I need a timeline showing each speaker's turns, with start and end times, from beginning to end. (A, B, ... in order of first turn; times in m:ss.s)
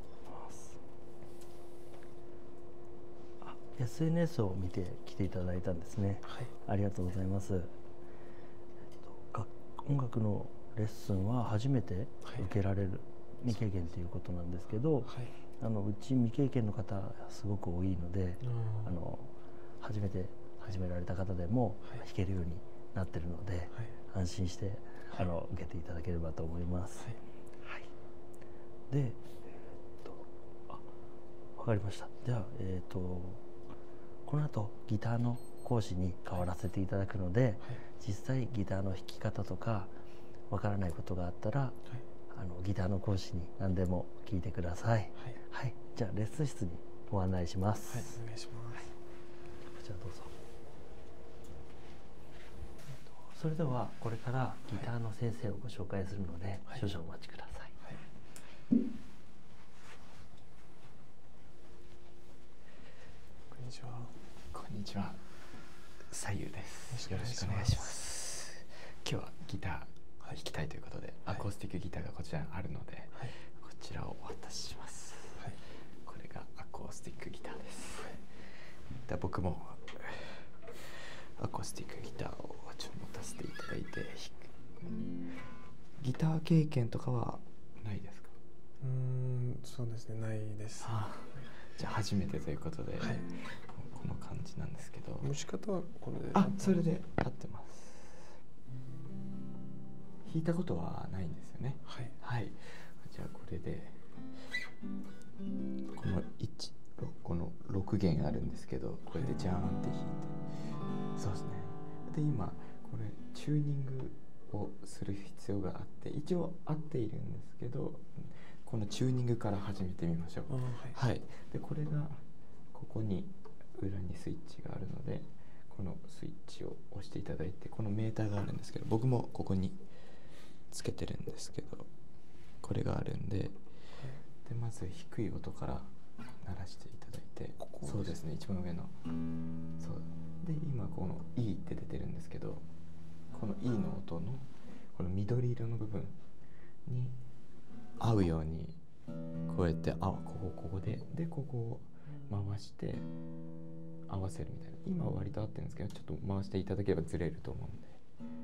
0:00.3-0:00.8 A
0:03.4-0:07.7 A
0:09.1-0:27.9 A
0:18.4-0:18.9 B
0:28.9-0:29.2 A
0:30.0-0:30.8 A
0:31.6-0:33.4 A
0:34.2-0:40.0 A
0:40.5-0:41.8 A
0:42.3-0:48.2 A
0:47.9-0:48.9 B
0:49.7-0:50.3 A
0:53.3-0:57.7 A
1:03.5-1:04.1 B
1:04.5-1:05.2 C
1:06.0-1:15.5 C
1:06.9-1:07.9 B
1:16.0-1:18.2 C
1:19.0-1:24.5 C
1:26.0-1:28.3 C
1:28.8-1:31.0 B
1:30.8-1:35.3 C
1:35.2-1:36.9 B
1:36.3-1:38.3 C
1:40.2-1:44.0 C
1:41.9-1:42.1 B
1:45.9-1:50.4 C
1:49.1-1:49.4 B
1:51.2-2:09.8 C
2:00.5-2:01.0 B
2:10.7-2:11.9 C
2:12.6-2:13.6 C
2:14.4-2:18.9 C
2:17.6-2:18.2 B
2:19.8-2:22.6 C
2:23.3-2:26.2 C
2:26.8-2:27.2 C
2:28.0-2:28.8 C
2:29.5-2:33.1 C
2:34.1-2:38.0 C